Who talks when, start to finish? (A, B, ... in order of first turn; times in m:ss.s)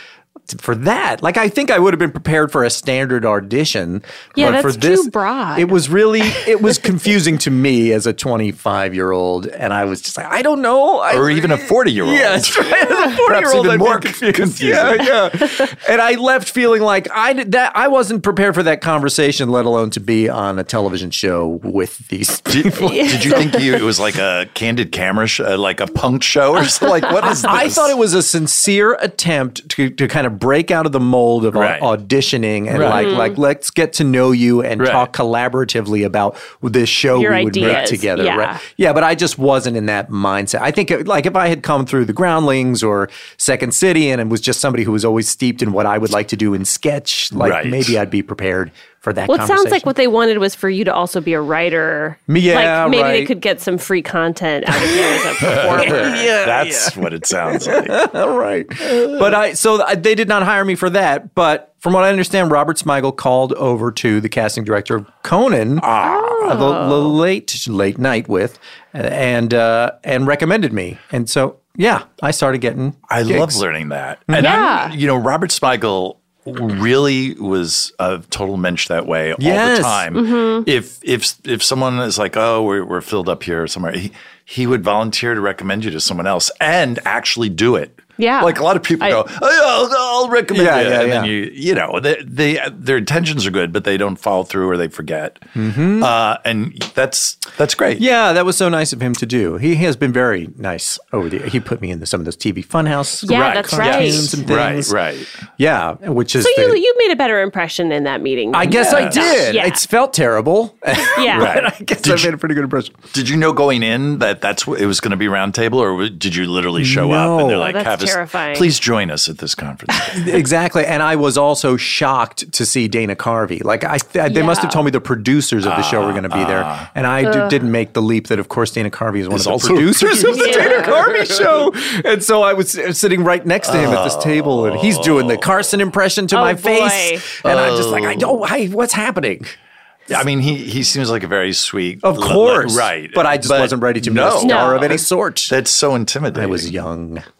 0:00.5-0:23.4 A
0:04.4-0:06.7 B
0:11.1-0:15.2 C
0:22.5-0:28.0 C
0:22.8-0:23.6 B
0:27.2-0:49.9 A
0:31.5-0:31.9 C
0:32.7-0:33.2 C
0:32.8-0:33.4 B
0:34.8-0:35.1 C
0:37.1-0:38.6 B
0:37.6-0:37.9 C
0:47.4-0:48.0 C
0:49.3-0:56.3 B
0:52.3-0:53.3 A
0:54.8-1:13.6 A
0:55.4-0:58.1 C
1:05.8-1:06.8 C
1:06.0-1:07.1 B
1:13.1-1:38.0 C
1:14.3-1:14.7 A
1:14.4-1:15.0 B
1:19.4-1:20.1 A
1:20.2-1:20.7 B
1:28.2-1:29.2 B
1:30.5-1:31.3 A
1:35.6-1:36.1 A
1:38.0-1:45.0 A
1:43.2-1:44.5 B
1:43.4-1:45.4 C
1:45.6-1:46.8 A
1:46.4-1:49.8 B
1:48.5-1:53.0 A
1:48.6-1:49.4 C
1:51.2-1:51.6 B
1:51.3-1:52.3 C
1:53.1-2:00.4 C
1:56.8-1:57.7 A
1:57.6-1:58.7 B
2:00.1-2:19.6 A
2:04.3-2:04.8 B
2:05.6-2:06.9 C
2:07.2-2:07.5 B
2:09.3-2:11.6 C
2:10.3-2:11.0 B
2:13.6-2:15.7 C
2:16.3-2:17.3 B
2:17.4-2:18.4 C
2:20.1-2:26.7 C
2:22.0-2:25.6 A
2:24.4-2:25.0 B
2:26.3-2:27.2 A